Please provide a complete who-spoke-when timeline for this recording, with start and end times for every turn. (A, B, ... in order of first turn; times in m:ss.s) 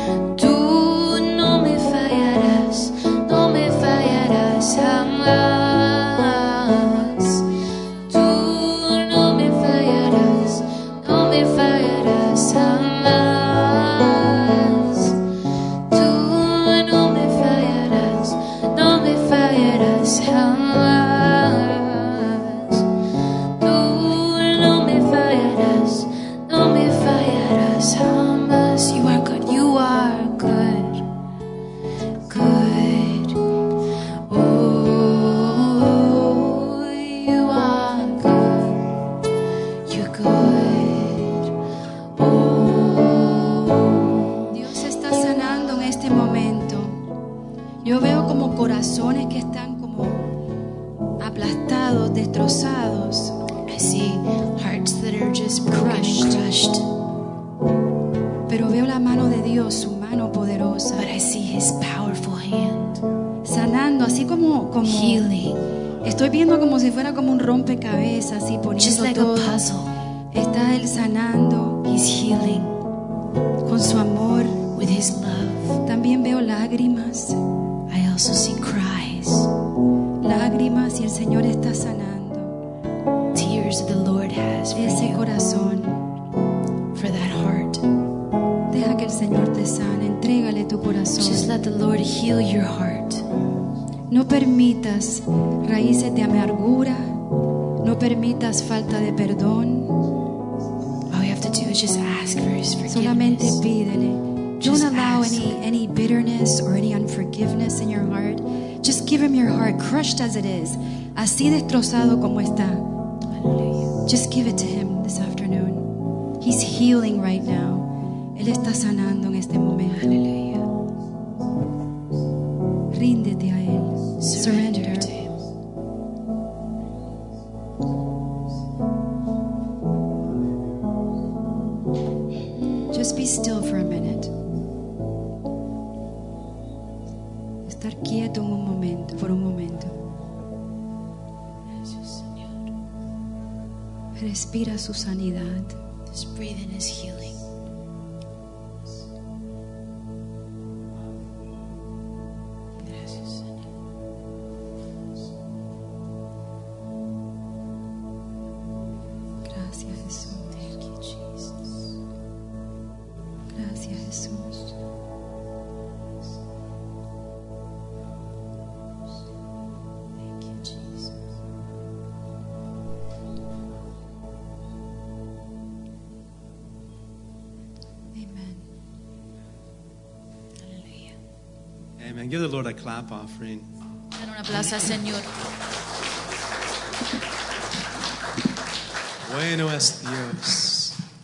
0:00.3-0:07.4 A
0:08.1-0:15.2 A
0:15.9-0:22.8 A
0:23.6-0:31.0 A
0:32.3-0:33.4 A
0:34.3-0:38.9 A
0:39.9-0:41.5 A
0:42.2-0:44.2 A
0:44.5-0:47.0 B
0:47.8-0:50.3 B
0:51.2-0:53.4 B
0:53.7-0:56.9 A
0:55.7-0:56.5 B
0:58.5-1:01.1 B
1:01.0-1:03.0 A
1:03.4-1:05.3 B
1:04.8-1:05.6 A
1:06.0-1:09.6 B
1:08.8-1:09.9 A
1:10.3-1:11.9 B
1:11.8-1:12.8 A
1:13.6-1:14.7 B
1:14.7-1:15.8 A
1:15.8-1:17.4 B
1:17.9-1:19.5 A
1:20.2-1:22.6 B
1:23.3-1:25.2 A
1:24.7-1:26.0 B
1:26.9-1:27.8 A
1:28.7-1:31.5 B
1:31.2-1:33.2 A
1:34.1-1:37.2 B
1:37.8-1:40.0 B
1:41.1-1:43.6 A
1:42.9-1:52.8 B
1:44.6-1:45.6 A
1:53.3-1:53.9 A
1:54.0-2:00.2 B
1:59.9-2:00.7 A
2:02.9-2:05.1 B
2:04.2-2:05.4 A
2:12.9-2:14.3 B
2:17.7-2:19.9 B
2:21.8-2:22.4 A
2:24.2-2:25.8 B
2:26.1-2:27.4 A
2:32.8-2:33.4 A
2:39.4-2:40.8 B
2:43.5-2:44.7 B
2:58.2-2:58.6 B
3:00.7-3:01.2 A
3:02.0-3:03.7 C
3:04.2-3:05.3 A
3:09.2-3:11.0 C